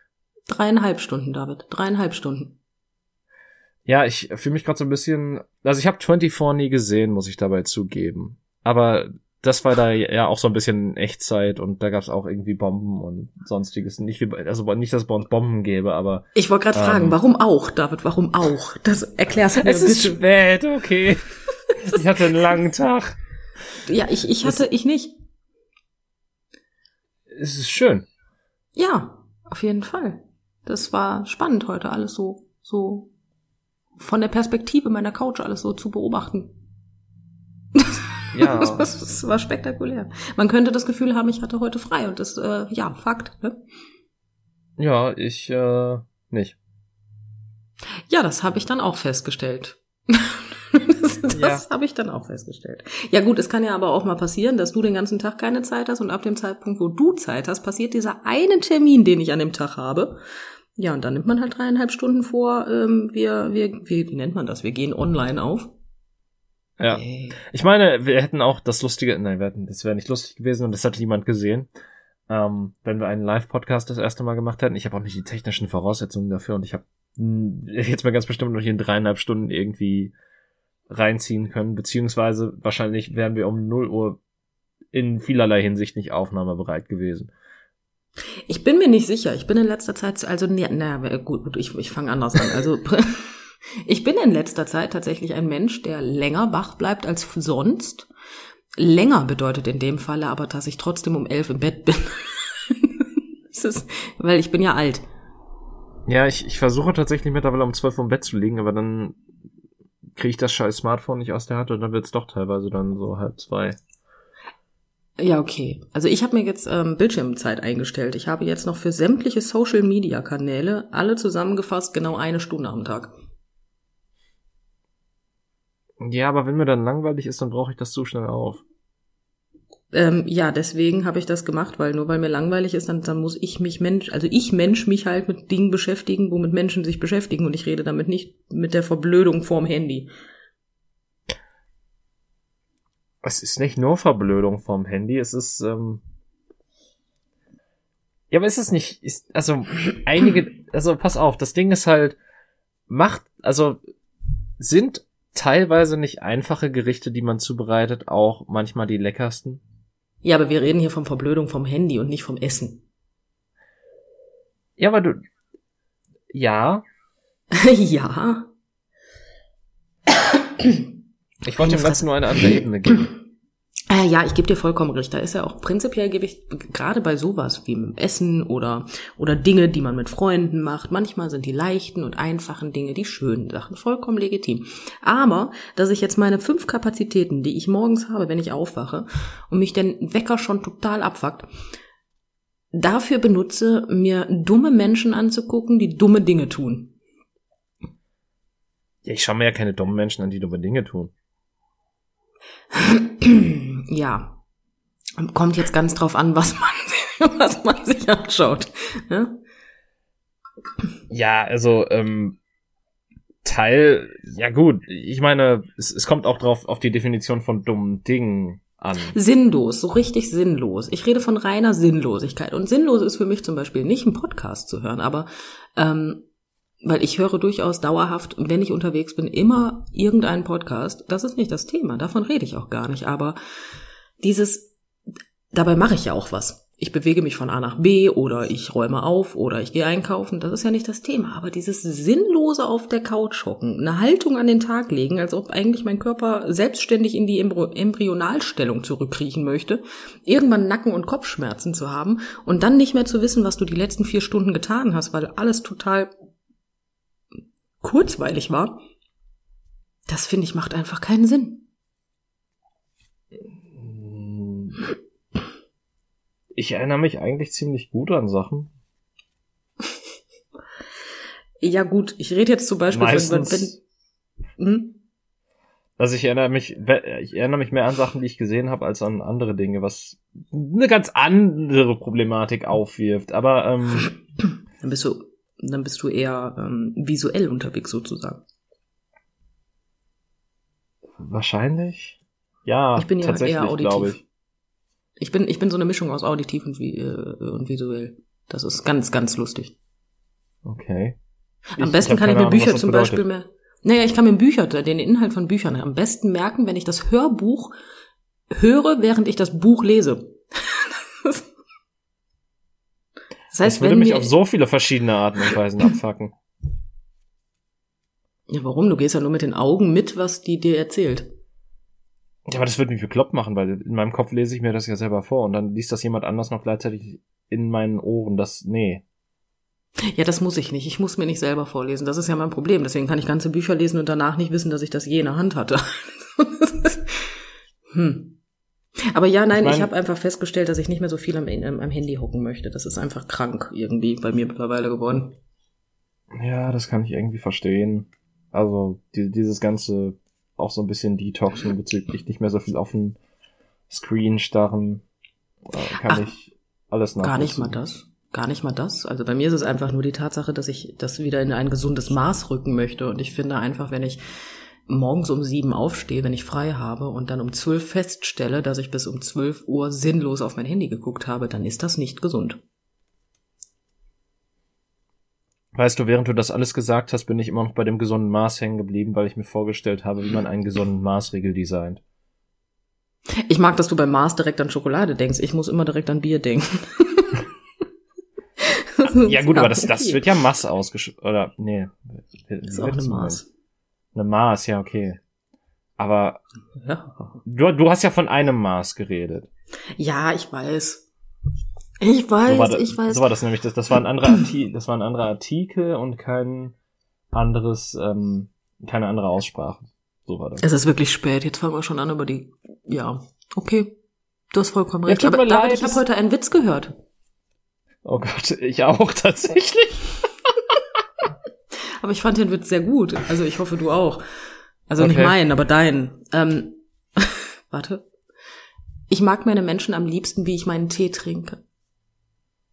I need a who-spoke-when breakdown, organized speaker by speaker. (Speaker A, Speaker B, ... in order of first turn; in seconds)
Speaker A: 0.5-2.6, 16.4-20.2, 23.9-25.1, 28.8-33.1, 34.0-36.5, 37.8-43.6, 48.1-60.2, 60.8-65.7, 66.9-67.4, 88.5-98.1, 98.8-105.0, 115.2-123.1, 129.9-140.1, 160.2-162.8, 167.5-168.5, 170.6-170.8, 171.6-172.6, 173.9-191.5, 192.7-196.9, 202.7-204.4, 205.2-209.4, 219.1-226.2, 226.8-233.4, 234.2-234.7, 235.5-256.1, 257.8-258.8, 260.1-261.6, 271.6-273.8, 274.6-275.0, 284.8-288.4, 293.0-294.2, 295.2-299.7, 301.8-307.8, 308.5-311.4, 313.5-314.3, 318.5-321.3, 330.1-337.3, 337.9-338.4, 339.1-345.4, 356.0-356.3, 357.2-364.2, 364.9-372.6, 383.4-387.4, 388.6-390.2, 392.7-393.5, 396.8-397.4, 400.0-401.1, 402.0-403.3, 410.6-413.9, 414.5-416.9, 422.0-424.2, 424.9-428.1, 429.1-431.6
Speaker B: 3.9-17.2, 19.6-21.2, 21.8-23.1, 27.3-28.1, 38.3-38.9, 44.8-46.6, 51.4-51.6, 66.8-71.7, 72.3-80.1, 80.9-84.2, 84.9-87.3, 106.1-109.2, 110.2-113.8, 126.0-128.6, 143.2-146.0, 148.3-152.2, 152.9-153.8, 154.6-159.6, 164.8-165.2, 166.3-166.8, 171.4-173.1, 199.0-201.1, 211.1-212.4, 213.4-219.2, 263.4-264.9, 266.6-268.7, 272.9-273.8, 276.0-284.1, 291.2-294.2, 300.6-301.2, 301.8-303.2, 313.6-316.3, 322.5-329.0, 339.5-339.9, 346.3-353.2, 353.9-355.0, 355.7-357.8, 375.7-382.0, 389.1-393.4, 394.1-395.2, 396.0-396.4, 397.4-399.5, 402.5-406.7, 407.3-410.6, 415.1-416.0, 418.0-420.2, 425.0-425.4